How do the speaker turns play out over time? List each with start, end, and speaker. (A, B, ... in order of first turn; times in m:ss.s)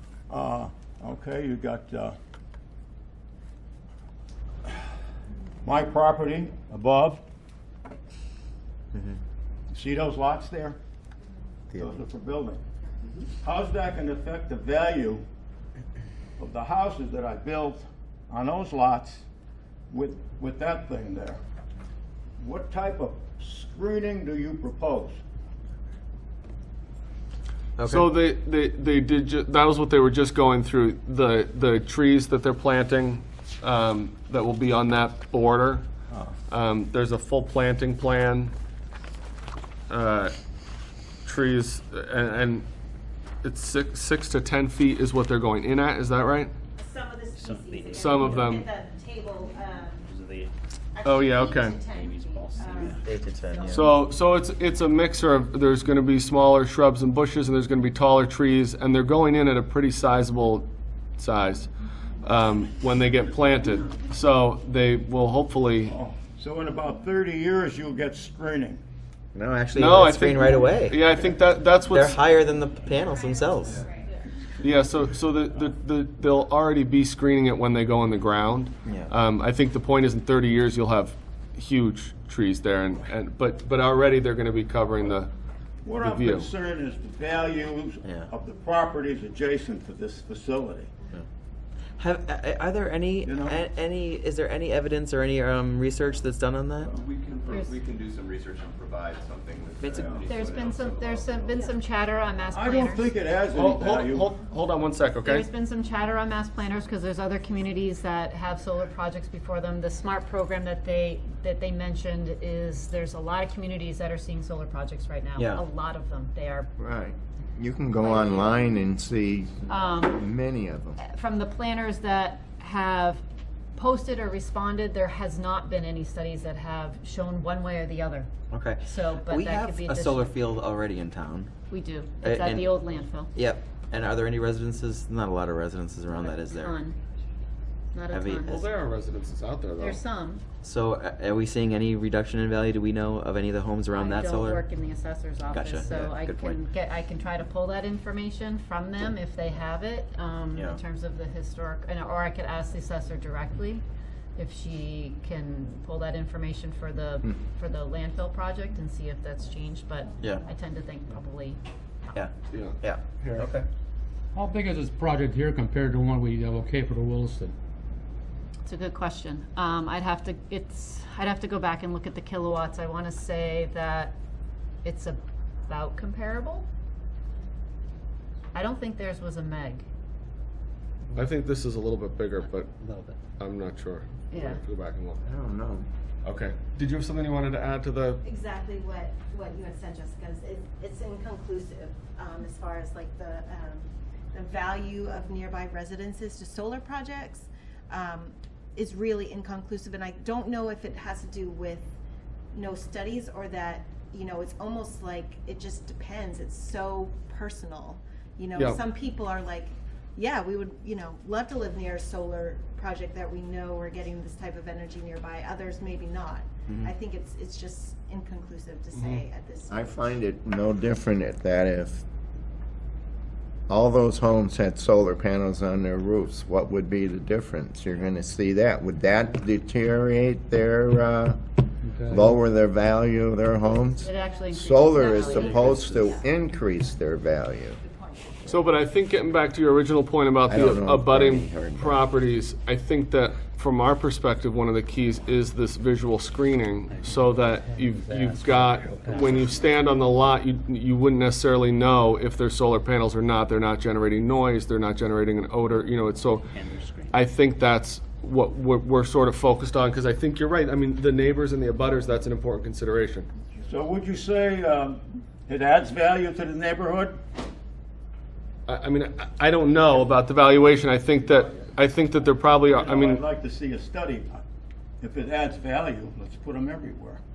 0:00.3-0:02.2 A
0:05.6-0:07.2 A
0:09.7-0:10.8 A
0:11.7-0:12.0 B
0:11.8-0:12.6 A
0:13.4-0:15.2 A
0:16.4-0:19.2 A
0:19.9-0:21.4 A
0:22.4-0:25.2 A
0:27.8-0:28.1 B
0:27.9-0:35.8 C
0:36.5-0:38.5 C
0:39.9-0:40.3 C
0:41.2-0:42.7 C
0:43.4-0:46.5 C
0:46.8-0:50.1 D
0:47.4-0:48.4 E
0:47.9-0:48.7 C
0:50.0-0:50.5 E
0:50.9-0:54.0 D
0:51.0-0:51.8 C
0:51.9-0:53.0 E
0:52.9-0:53.9 B
0:53.7-1:00.7 C
1:01.2-1:01.7 C
1:02.2-1:05.9 C
1:05.9-1:08.8 A
1:09.3-1:11.0 B
1:09.7-1:12.2 C
1:11.9-1:13.9 B
1:13.2-1:13.9 D
1:14.6-1:25.3 C
1:18.8-1:19.1 B
1:25.8-1:30.9 A
1:26.0-1:26.5 C
1:28.0-1:28.3 B
1:32.0-1:37.0 B
1:33.2-1:33.6 A
1:37.0-1:41.4 F
1:37.5-1:37.8 G
1:39.8-1:40.6 B
1:40.2-1:43.1 G
1:42.5-1:44.3 A
1:43.5-1:45.5 C
1:45.2-1:56.7 G
1:55.4-1:55.6 B
1:56.8-2:01.0 H
1:58.0-1:58.7 G
1:59.7-2:00.3 G
2:01.0-2:03.2 G
2:03.8-2:08.3 G
2:08.5-2:11.5 B
2:08.8-2:10.3 G
2:11.7-2:13.3 G
2:12.2-2:12.8 B
2:13.3-2:16.8 B
2:16.2-2:17.0 G
2:17.9-2:18.6 G
2:18.1-2:18.6 B
2:18.5-2:20.0 C
2:19.8-2:20.4 G
2:20.6-2:24.6 B
2:23.9-2:33.8 G
2:25.5-2:26.6 B
2:34.4-2:41.6 G
2:40.2-2:40.5 B
2:42.1-2:43.6 B
2:42.5-2:43.5 C
2:44.3-2:47.6 E
2:48.7-2:54.2 G
2:54.8-2:56.7 G
2:58.5-2:59.8 G
3:01.2-3:02.7 C
3:02.8-3:03.1 B
3:03.4-3:05.2 C
3:04.3-3:04.6 G
3:05.2-3:05.9 H
3:06.2-3:08.2 C
3:08.2-3:21.9 D
3:22.5-3:40.2 D
3:38.9-3:39.2 C
3:39.7-3:42.0 H
3:43.7-3:57.8 H
3:51.8-3:52.3 E
3:54.0-3:56.2 G
3:54.9-3:56.3 D
3:57.8-3:58.4 D
3:58.5-4:16.5 C
4:00.5-4:02.0 H
4:06.9-4:07.2 E
4:07.8-4:09.5 E
4:16.5-4:17.1 E
4:17.1-4:23.3 C
4:23.6-4:27.2 A
4:28.7-4:33.2 C
4:32.8-4:34.4 A
4:35.0-4:37.2 A